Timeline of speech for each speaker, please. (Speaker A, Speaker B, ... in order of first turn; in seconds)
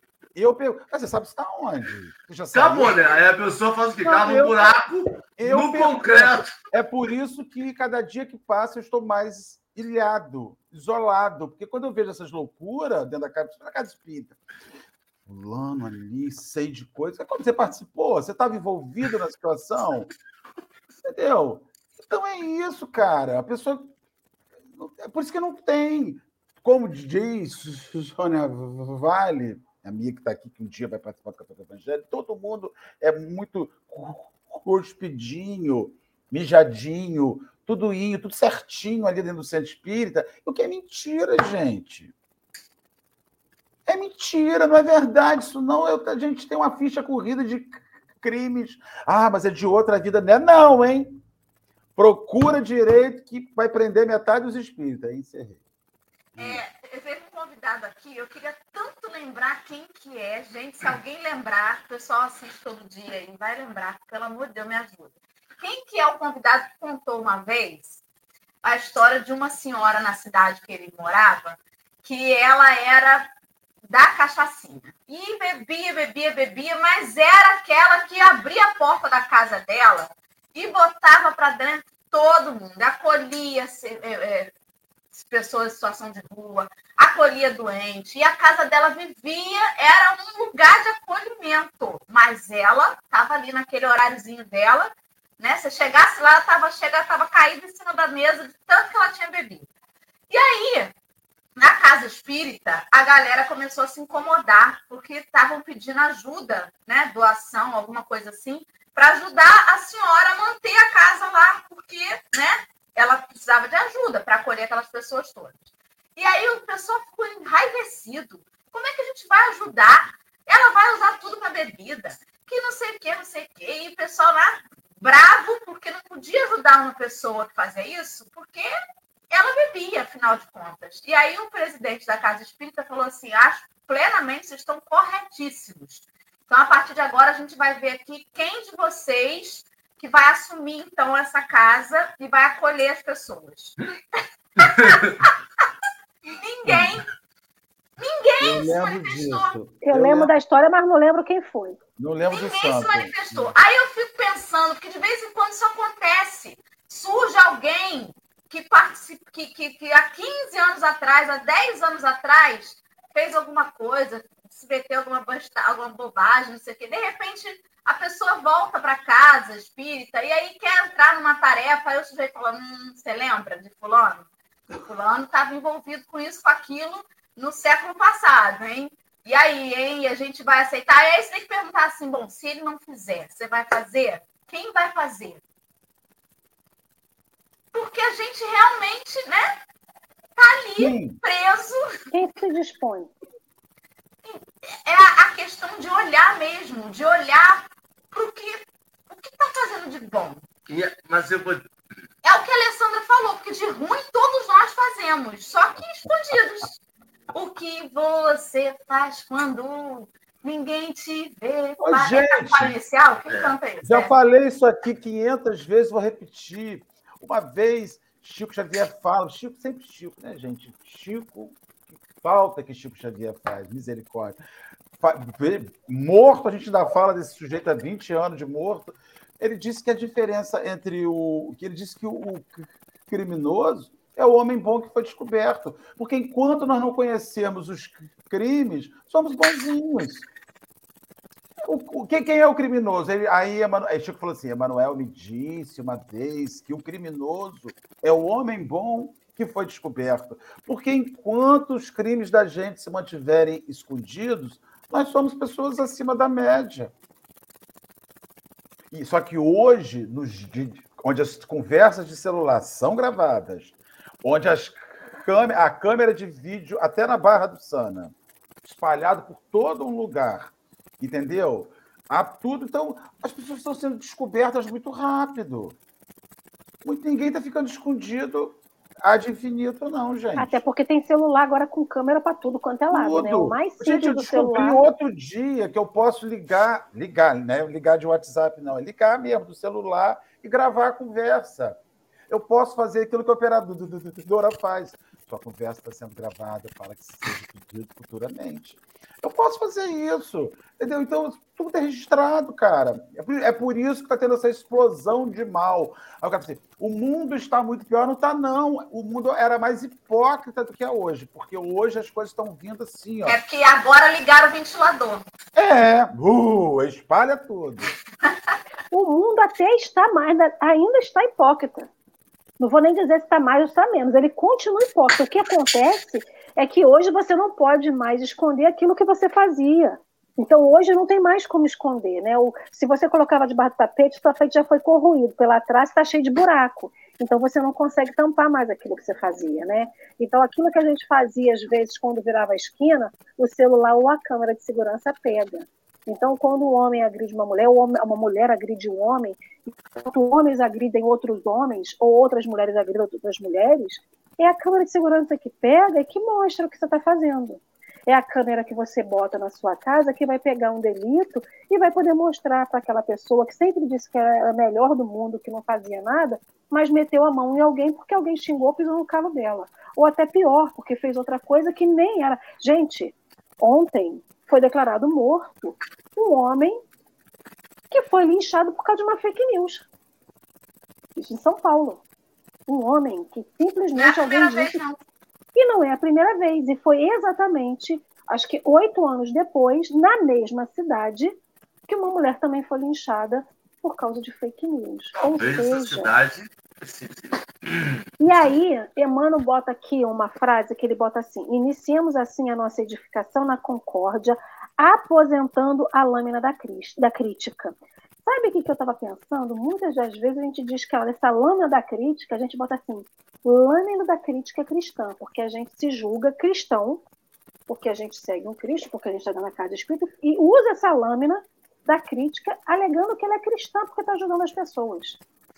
Speaker A: 0.3-3.0, 4.0-4.8, 5.3-14.4, 15.2-20.1, 21.0-23.9, 24.7-42.1, 43.9-51.2, 52.0-55.6, 56.4-56.6, 146.7-146.9, 148.4-150.3, 152.0-153.5, 190.8-191.2, 211.8-212.7, 213.8-221.6, 222.1-224.4, 225.0-240.3, 241.6-256.9, 258.9-275.8, 276.8-280.6, 282.9-313.4, 315.5-317.9
Speaker B: 2.5-6.5, 144.6-145.2, 200.7-201.6, 213.3-213.6, 395.3-398.5
Speaker C: 56.4-68.0, 68.6-73.3, 73.9-84.5, 85.1-99.7, 100.3-100.9, 101.6-115.6, 116.2-128.7, 129.3-145.3, 146.2-147.1, 148.0-149.6, 152.2-185.4, 187.7-189.6, 190.3-191.9, 194.2-200.4, 202.2-206.8, 207.3-214.1, 313.2-315.2, 383.9-385.0
Speaker D: 149.8-151.8, 192.1-193.1, 280.4-284.8, 318.9-321.9, 322.6-376.8, 377.9-379.9, 381.1-382.0, 382.7-384.8, 385.5-391.3, 391.9-396.1, 398.2-417.0, 417.7-425.2